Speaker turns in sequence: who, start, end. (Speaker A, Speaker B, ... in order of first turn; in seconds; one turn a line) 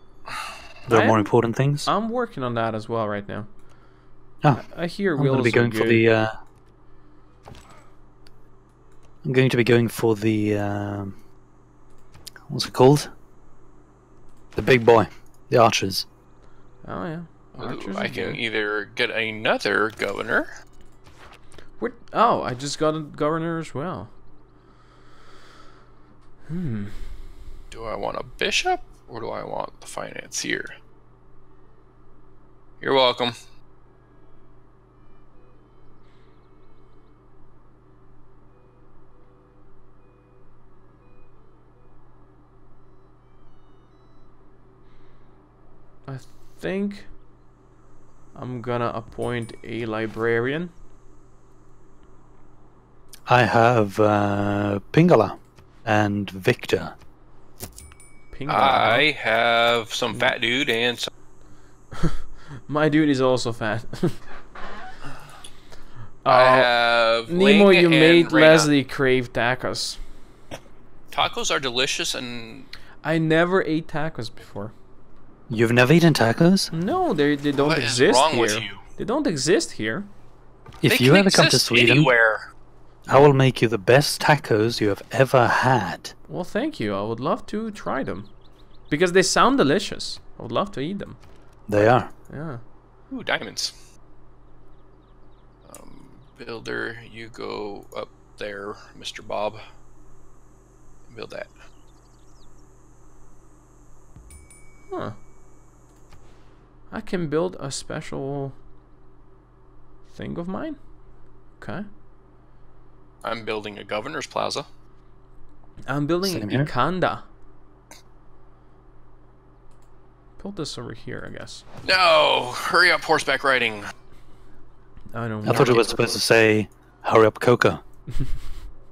Speaker A: 0.9-1.9
Speaker B: 0.9-1.3
Speaker B: 1.9-3.5
Speaker B: 4.5-6.1
Speaker A: 5.2-6.3
Speaker A: 9.2-11.2
Speaker A: 12.5-13.1
Speaker A: 14.5-16.1
Speaker B: 16.8-18.4
Speaker C: 17.6-20.5
Speaker B: 21.8-24.1
Speaker B: 26.5-27.0
Speaker C: 27.7-30.7
Speaker C: 32.8-33.4
Speaker B: 46.1-47.1
Speaker B: 48.3-50.7
Speaker A: 53.3-57.0
Speaker B: 58.3-59.0
Speaker C: 58.5-61.1
Speaker B: 62.7-64.2
Speaker B: 66.2-66.7
Speaker C: 66.3-68.7
Speaker B: 67.3-70.0
Speaker C: 71.1-72.7
Speaker B: 73.0-74.7
Speaker A: 75.5-76.7
Speaker B: 76.7-80.1
Speaker C: 77.6-78.8
Speaker A: 80.8-82.1
Speaker C: 80.9-82.4
Speaker A: 83.1-86.1
Speaker B: 86.3-88.3
Speaker B: 88.9-91.2
Speaker A: 91.7-92.1
Speaker B: 91.7-92.6
Speaker C: 93.1-93.7
Speaker C: 95.6-99.6
Speaker C: 101.1-101.5
Speaker B: 104.9-105.2
Speaker B: 106.9-108.6
Speaker B: 110.1-110.8
Speaker B: 111.6-111.8
Speaker C: 113.2-114.7
Speaker B: 115.9-117.2
Speaker A: 116.2-116.7
Speaker B: 120.4-121.6
Speaker C: 121.8-123.9
Speaker B: 125.1-126.0
Speaker A: 125.4-127.8